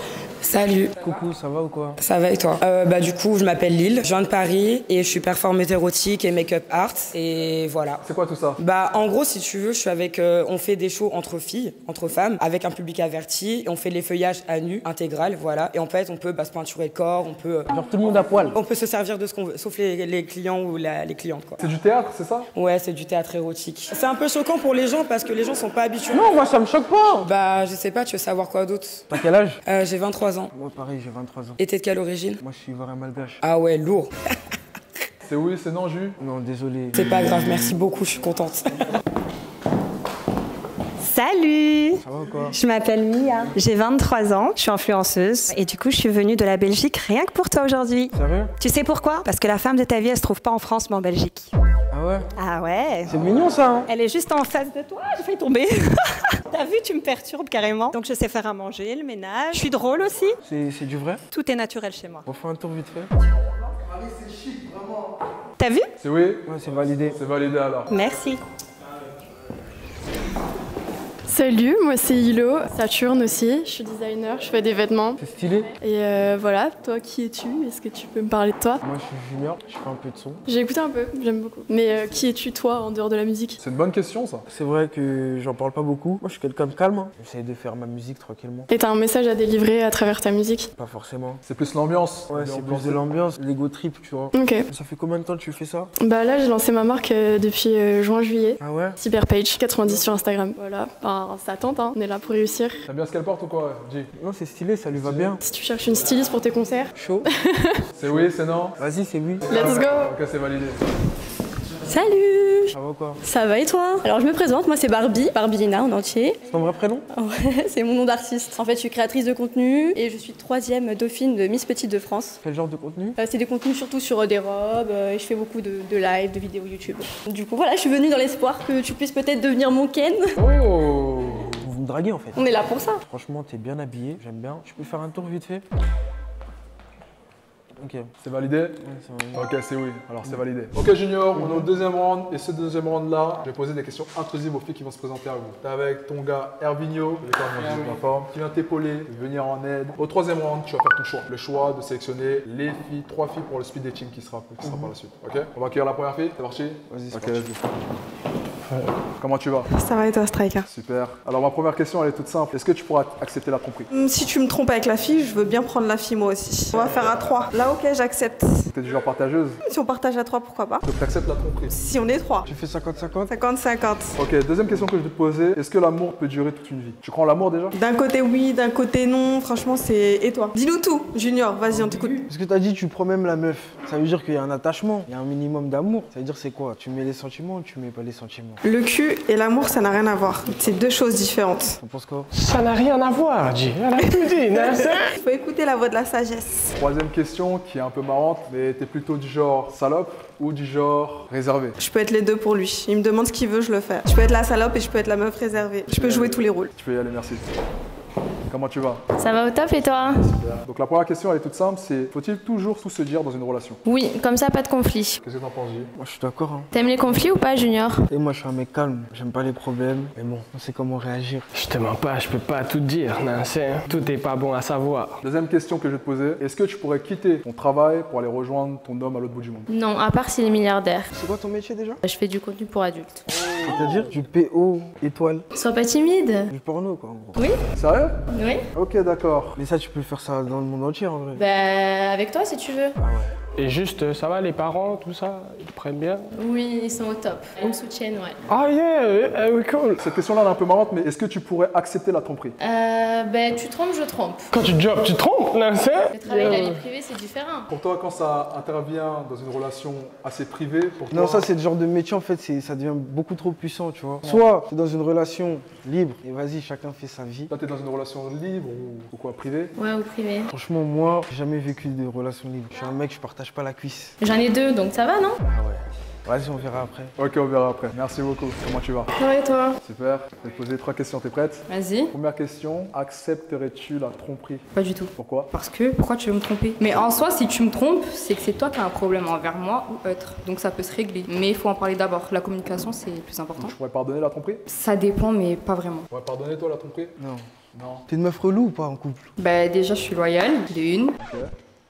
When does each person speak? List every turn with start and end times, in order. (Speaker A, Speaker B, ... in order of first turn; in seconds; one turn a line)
Speaker A: 0.4-1.0
Speaker B: 1.0-2.0
Speaker A: 2.0-8.0
Speaker C: 8.0-8.6
Speaker A: 8.6-17.8
Speaker B: 17.7-18.6
Speaker A: 18.5-21.7
Speaker C: 21.6-22.5
Speaker A: 22.5-26.4
Speaker B: 26.1-27.3
Speaker A: 27.2-29.1
Speaker B: 29.1-29.6
Speaker A: 29.6-30.5
Speaker B: 30.5-31.6
Speaker A: 31.6-32.4
Speaker B: 32.4-33.4
Speaker A: 33.4-34.1
Speaker C: 35.2-36.2
Speaker B: 36.2-37.8
Speaker A: 36.9-38.6
Speaker D: 41.0-51.5
Speaker B: 42.0-42.6
Speaker B: 48.1-48.5
Speaker B: 51.9-52.3
Speaker D: 52.4-53.3
Speaker B: 53.1-53.9
Speaker D: 53.9-60.4
Speaker B: 60.4-61.2
Speaker D: 61.3-62.3
Speaker B: 62.3-63.1
Speaker D: 65.6-65.9
Speaker C: 66.0-66.5
Speaker B: 66.5-67.2
Speaker C: 67.1-67.9
Speaker D: 67.9-68.4
Speaker E: 71.3-75.2
Speaker B: 75.2-75.7
Speaker E: 75.8-78.8
Speaker B: 78.8-80.4
Speaker E: 80.5-83.6
Speaker C: 83.6-84.4
Speaker B: 84.5-88.7
Speaker E: 88.7-90.7
Speaker B: 90.8-91.4
Speaker C: 91.5-93.0
Speaker B: 92.3-95.9
Speaker E: 94.3-94.7
Speaker E: 96.0-102.8
Speaker B: 98.6-99.0
Speaker C: 102.9-104.1
Speaker B: 104.2-105.4
Speaker C: 104.9-105.4
Speaker E: 105.4-107.8
Speaker B: 107.0-107.3
Speaker C: 108.0-108.8
Speaker B: 108.0-109.5
Speaker C: 109.5-110.8
Speaker E: 109.5-110.1
Speaker F: 111.9-116.4
Speaker B: 112.7-113.2
Speaker B: 116.5-117.1
Speaker F: 117.1-122.4
Speaker B: 122.4-123.2
Speaker F: 123.2-130.4
Speaker G: 130.4-131.5
Speaker B: 131.6-135.7
Speaker F: 132.4-133.0
Speaker B: 137.8-138.1
Speaker C: 138.2-138.8
Speaker B: 138.8-139.5
Speaker C: 139.3-157.5
Speaker B: 141.3-141.7
Speaker G: 147.5-148.0
Speaker B: 154.6-154.9
Speaker B: 156.9-157.8
Speaker C: 159.2-159.7
Speaker H: 159.7-160.7
Speaker C: 160.7-163.9
Speaker H: 163.9-168.7
Speaker C: 168.7-169.6
Speaker H: 169.6-170.8
Speaker C: 170.8-171.7
Speaker H: 171.7-172.5
Speaker B: 172.4-173.3
Speaker H: 173.3-174.2
Speaker C: 174.2-177.8
Speaker H: 177.7-182.2
Speaker C: 181.7-182.2
Speaker B: 182.3-188.6
Speaker H: 188.6-191.8
Speaker B: 191.8-192.3
Speaker G: 192.3-195.1
Speaker H: 194.6-196.8
Speaker C: 196.8-201.8
Speaker H: 201.8-206.7
Speaker C: 205.9-207.4
Speaker C: 208.5-213.8
Speaker I: 209.2-210.3
Speaker I: 213.8-215.2
Speaker C: 215.2-215.9
Speaker B: 216.0-216.7
Speaker I: 216.7-218.1
Speaker B: 218.1-221.5
Speaker G: 221.5-225.2
Speaker C: 225.2-229.7
Speaker I: 229.7-231.1
Speaker B: 231.1-232.0
Speaker I: 232.1-233.3
Speaker B: 233.6-235.5
Speaker C: 233.7-234.0
Speaker I: 235.5-236.5
Speaker B: 236.5-237.4
Speaker C: 237.8-238.2
Speaker I: 238.3-238.7
Speaker C: 238.7-239.6
Speaker B: 239.6-241.4
Speaker I: 241.4-243.0
Speaker B: 243.0-243.3
Speaker G: 243.6-246.3
Speaker I: 246.4-248.4
Speaker G: 248.5-250.1
Speaker C: 250.0-252.6
Speaker I: 252.6-254.5
Speaker G: 254.5-256.8
Speaker I: 256.1-257.7
Speaker C: 257.7-261.5
Speaker B: 261.1-267.5
Speaker C: 267.5-269.7
Speaker I: 269.8-270.5
Speaker B: 270.5-274.2
Speaker I: 274.2-275.4
Speaker B: 275.4-277.1
Speaker C: 277.2-279.1
Speaker I: 279.2-279.8
Speaker C: 279.8-284.6
Speaker J: 281.7-282.1
Speaker J: 284.7-293.7
Speaker C: 285.2-285.5
Speaker C: 293.6-294.6
Speaker J: 294.7-296.1
Speaker C: 296.1-297.2
Speaker B: 297.2-297.5
Speaker C: 297.7-298.1
Speaker B: 298.1-299.3
Speaker J: 299.4-301.2
Speaker C: 301.2-301.5